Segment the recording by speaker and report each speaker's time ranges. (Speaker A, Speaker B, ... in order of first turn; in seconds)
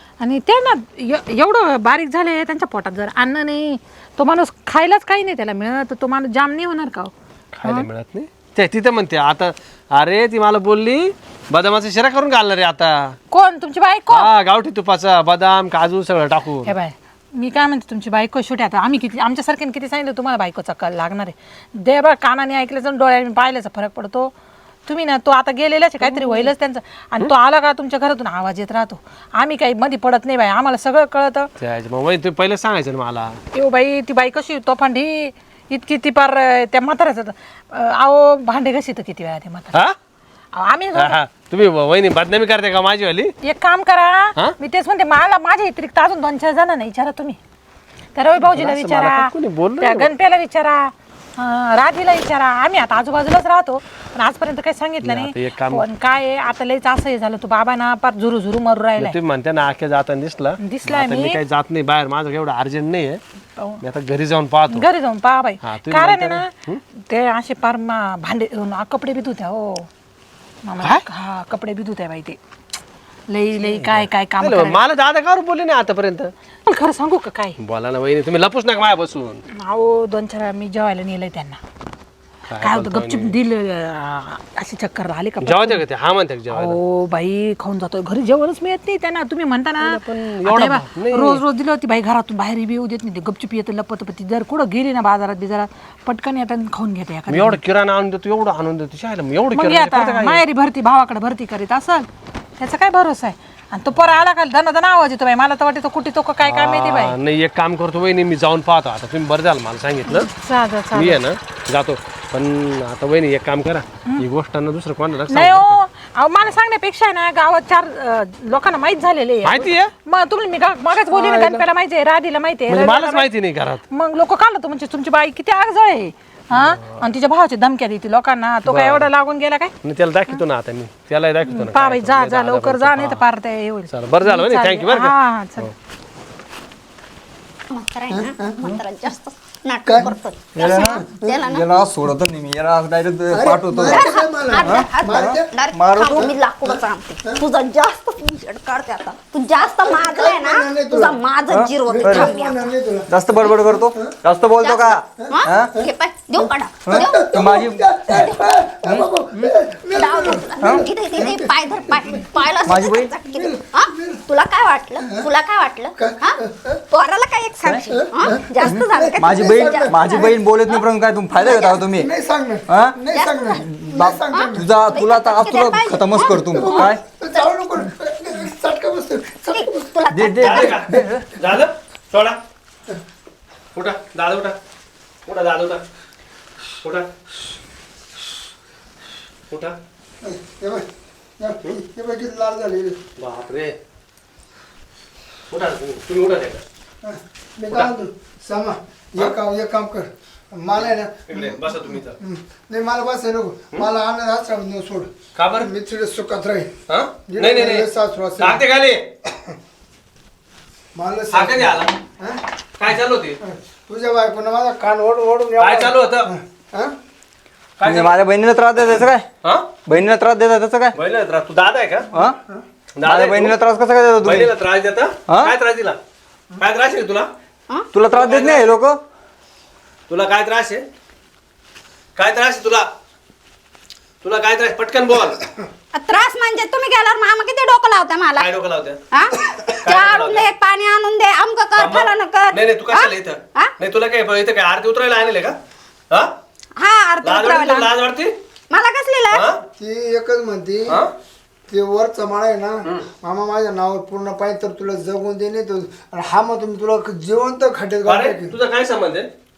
Speaker A: 0.2-7.9, 13.3-14.3, 16.6-24.3, 24.9-31.5, 33.5-39.8, 40.5-41.2, 43.4-47.4, 48.1-59.2, 60.6-61.4, 63.6-63.8, 64.7-66.5, 67.1-69.9, 70.6-72.4, 73.3-74.8, 76.7-77.6, 79.6-81.6, 82.6-85.8, 86.5-97.6, 99.5-102.1, 102.6-107.2, 110.1-111.2, 115.3-123.3, 123.9-129.7, 131.4-135.7
Speaker B: 7.6-13.2, 14.1-16.7, 26.0-26.5, 31.6-33.4, 41.0-43.3, 48.4-50.1, 55.0-55.9, 59.0-63.2, 63.8-64.9, 65.6-66.8, 73.6-76.3, 77.6-79.4, 82.5-83.4, 85.4-86.8, 89.8-91.4, 97.3-100.4, 106.4-110.3, 110.9-115.8, 119.4-119.9, 121.1-121.6, 122.7-123.8, 128.7-129.1, 129.8-133.2, 133.9-135.7, 180.4-182.4, 183.7-184.6, 185.2-185.8, 186.8-187.1, 189.5-189.8, 193.2-193.8, 195.5-196.6, 200.8-202.2, 205.4-205.7, 206.9-209.0, 211.3-212.0, 212.8-213.4, 215.6-216.3, 217.8-218.2, 220.9-222.1, 223.0-223.6, 224.2-226.0, 226.6-227.3, 228.1-228.8, 230.1-230.8, 232.2-232.9, 234.2-235.5, 238.4-239.0, 239.7-240.5, 241.8-245.6, 247.2-248.3, 249.3-249.6, 258.1-259.3
Speaker C: 137.7-141.7, 143.9-152.7, 154.6-157.3, 158.2-158.4, 159.9-166.4, 166.9-170.8, 171.4-171.9, 173.1-176.9, 179.5-180.8, 235.9-238.5, 239.1-243.7, 246.8-247.9, 248.7-249.5
Speaker D: 138.1-138.4, 139.9-140.1, 143.3-145.5, 149.8-151.2, 151.9-153.3, 156.4-162.2, 163.3-164.3, 165.0-165.3, 166.0-166.8, 167.9-170.3, 172.0-174.7, 176.5-179.9, 190.2-190.9, 191.4-193.0, 197.0-201.6, 202.2-206.7, 207.3-208.6, 210.9-212.4, 213.4-216.9, 249.8-251.0, 251.7-258.5
Speaker E: 140.6-146.3, 151.5-152.4, 153.1-155.9, 156.8-158.3, 162.7-163.1, 167.7-167.9, 168.7-172.1, 172.7-173.0, 173.6-177.0, 180.1-181.3, 217.8-219.2, 219.9-220.9, 223.0-224.5, 227.9-229.0